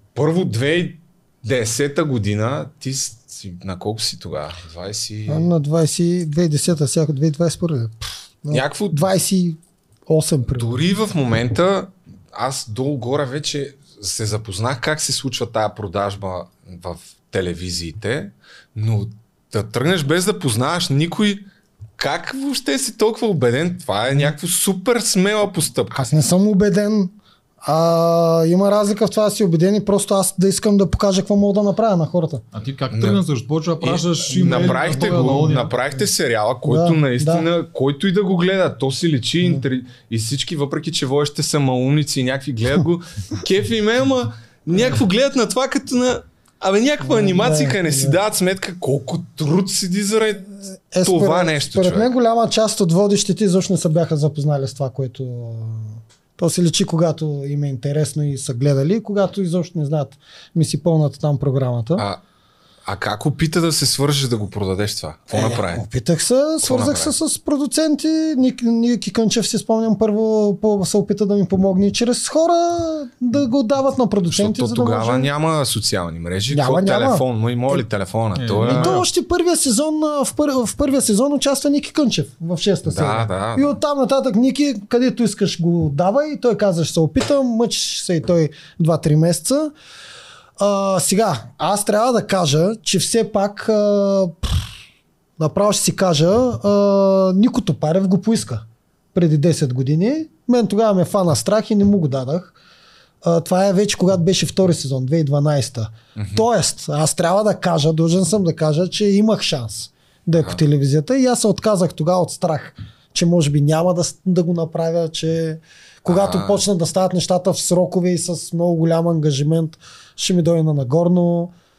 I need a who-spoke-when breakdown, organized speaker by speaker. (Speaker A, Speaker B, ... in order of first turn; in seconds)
Speaker A: 0.1-5.5, 8.5-9.1, 10.4-21.4, 22.0-26.1, 32.9-33.2, 33.8-52.1, 62.9-65.8, 66.6-67.1, 74.3-79.0, 82.8-83.8, 106.2-106.5, 110.3-110.6, 116.1-116.6
Speaker B: 5.3-10.8, 25.9-32.4, 34.3-35.4, 36.7-37.5, 47.0-48.2, 50.9-62.0, 65.3-75.3, 76.5-77.2, 78.6-89.7, 90.6-94.6, 95.4-102.5, 103.2-121.5
Speaker C: 32.5-35.7, 78.3-79.0